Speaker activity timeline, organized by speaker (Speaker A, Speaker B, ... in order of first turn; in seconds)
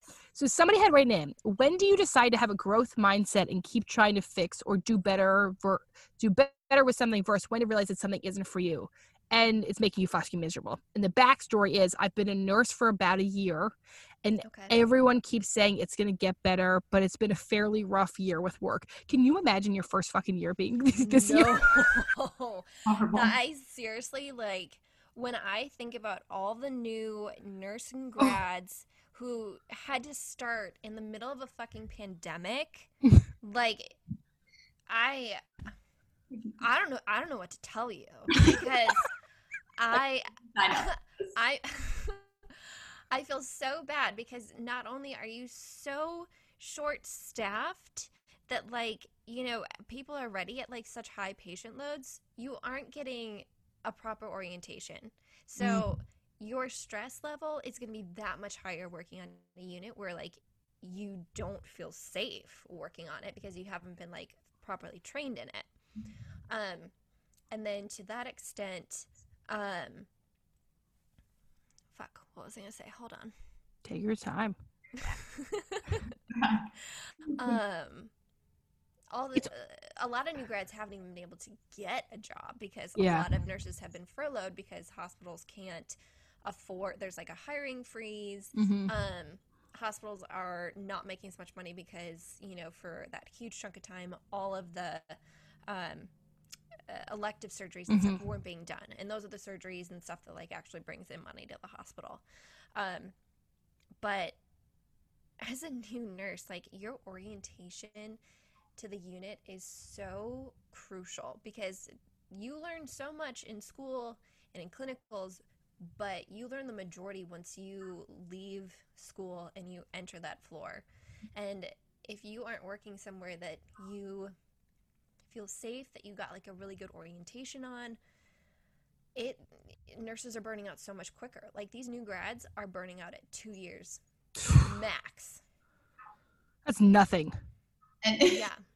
Speaker A: 0.3-21.9, 55.6-55.8, 73.8-74.5, 83.0-83.3, 88.5-88.9, 97.9-98.2, 136.7-137.3
Speaker B: 14.4-14.8, 21.0-34.0, 34.9-35.7, 36.6-39.1, 39.8-65.7, 66.5-66.9, 67.5-70.1, 71.9-73.3, 75.0-76.1, 76.9-78.1, 79.1-96.1, 96.9-102.2, 102.7-103.1, 104.0-104.4, 105.4-108.2, 108.8-124.3, 125.3-128.0, 129.1-135.4, 138.2-138.6
Speaker C: 22.9-23.4, 38.3-38.6, 40.5-40.9, 76.3-76.7, 138.0-138.5